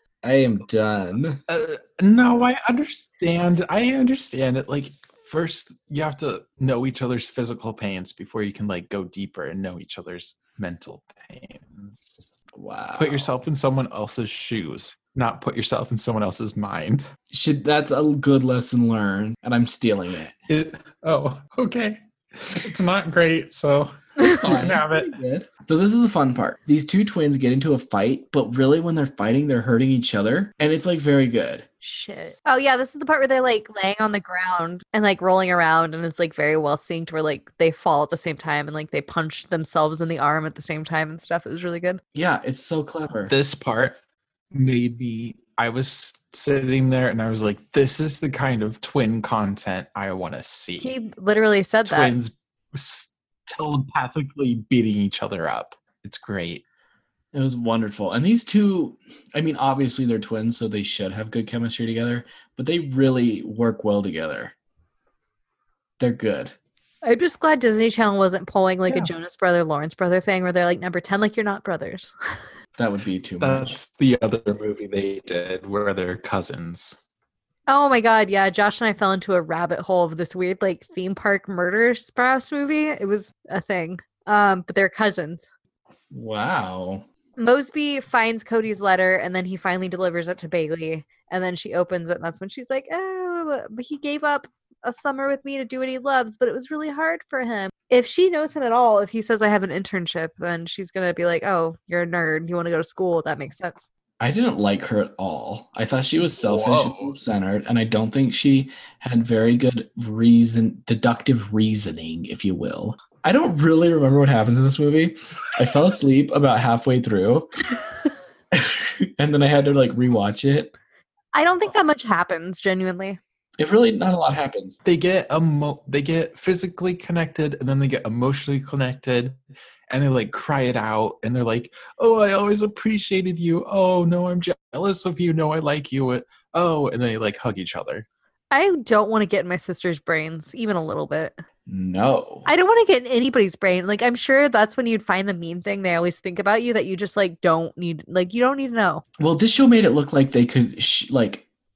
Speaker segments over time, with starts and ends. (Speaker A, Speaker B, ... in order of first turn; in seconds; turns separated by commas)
Speaker A: 0.2-1.4, Speaker B: 1.5-12.3, Speaker A: 12.5-13.3, Speaker B: 13.0-17.1, Speaker A: 17.3-20.4, Speaker B: 20.5-25.1, Speaker A: 24.2-31.6, Speaker C: 31.8-42.0, Speaker A: 42.1-43.3, Speaker B: 43.3-44.0, Speaker B: 44.5-50.9, Speaker C: 50.8-52.1, Speaker B: 51.8-56.6, Speaker A: 57.3-64.5, Speaker A: 66.0-66.5, Speaker C: 67.0-72.1, Speaker A: 72.8-73.8, Speaker B: 73.4-77.0, Speaker C: 77.7-85.5, Speaker A: 86.1-87.0, Speaker C: 87.4-103.9, Speaker A: 104.2-117.5, Speaker B: 106.4-107.2, Speaker A: 118.5-120.7, Speaker C: 121.3-123.2, Speaker A: 123.6-124.8, Speaker B: 124.8-129.4, Speaker B: 129.9-138.1, Speaker C: 138.5-141.4, Speaker A: 141.7-142.5, Speaker C: 142.4-149.0, Speaker A: 149.2-151.4